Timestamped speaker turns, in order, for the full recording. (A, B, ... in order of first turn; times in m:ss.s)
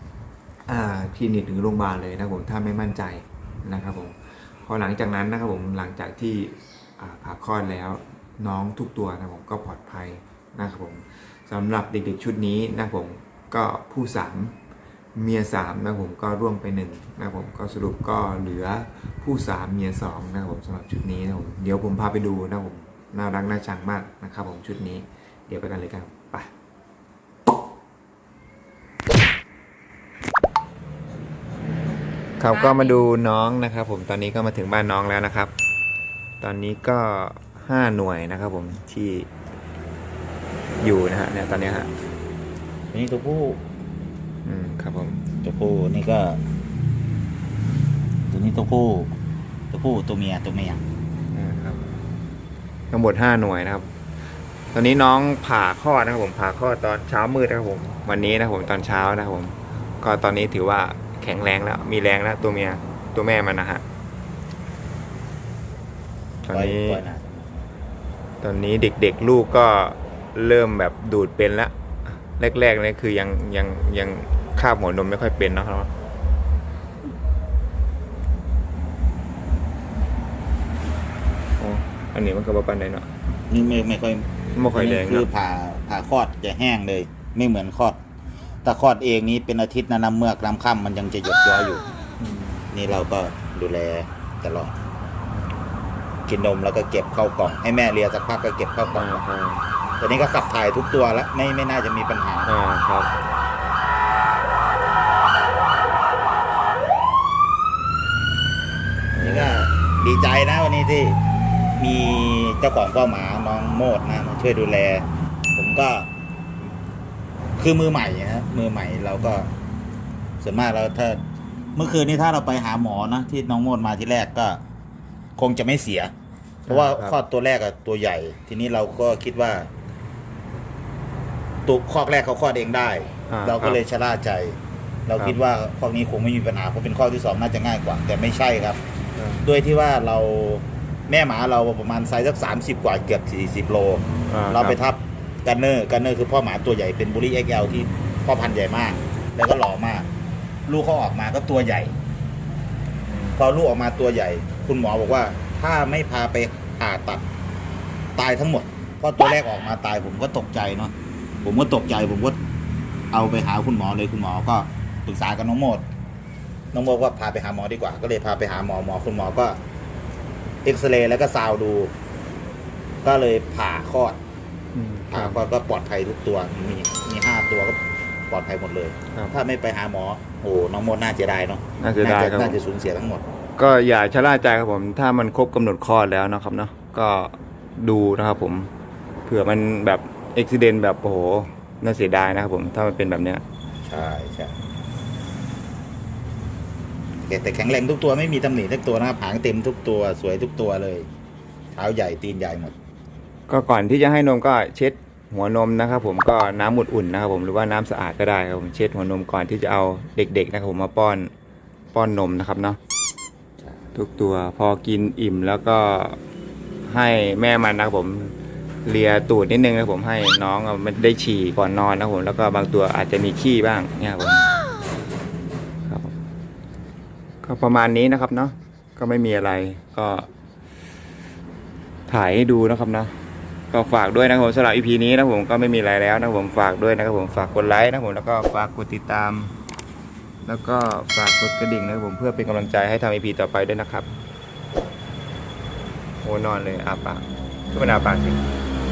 0:00.7-0:14.6 A
0:15.2-0:26.5 A
0:32.4-0:35.5 A
0:36.4-0:39.3 A
0:40.8-0:41.9 A
0:42.9-0:43.6 B
0:44.4-0:45.2 A
0:45.4-0:46.4 B
0:48.3-0:49.1 B
0:49.7-0:50.8 B
0:51.3-0:52.0 A
0:52.9-0:53.9 A
0:54.7-1:03.8 A
1:06.4-1:07.0 A
1:06.5-1:07.4 B
1:08.4-1:15.9 A
1:21.6-1:23.1 A
1:23.5-1:28.0 B
1:24.5-1:25.3 A
1:28.6-1:31.8 B
1:32.2-1:32.6 A
1:32.7-1:34.7 B
1:36.3-1:39.2 B
1:38.9-1:39.6 A
1:40.0-1:42.5 B
1:42.4-1:43.1 A
1:49.1-1:49.5 A
1:49.2-1:51.2 B
1:51.8-1:56.1 B
1:57.6-1:59.5 B
2:00.4-2:01.2 B
2:01.8-2:04.6 B
2:05.4-2:06.1 B
2:06.7-2:07.2 A
2:06.7-2:09.7 B
2:11.6-2:18.8 B
2:13.3-2:13.8 A
2:19.2-2:19.4 A
2:19.4-2:30.1 B
2:24.3-2:24.8 A
2:30.7-2:32.0 B
2:33.1-2:33.4 A
2:33.4-2:37.2 B
2:38.2-2:42.4 B
2:43.1-2:45.8 B
2:46.7-2:49.6 B
2:50.6-2:51.9 B
2:53.0-2:54.2 B
2:54.7-2:55.4 A
2:55.1-3:03.2 B
3:01.8-3:02.6 A
3:03.6-3:08.7 A
3:09.2-3:13.4 A
3:13.8-3:14.5 B
3:17.2-3:21.1 B
3:21.7-3:22.7 B
3:23.5-3:31.3 A
3:31.9-3:32.8 A
3:33.9-3:36.2 A
3:36.8-3:44.5 A
3:45.9-3:46.1 A
3:47.4-3:50.3 A
3:52.1-3:53.2 A
3:53.7-3:59.5 A
4:00.4-4:04.1 A
4:06.2-4:08.4 A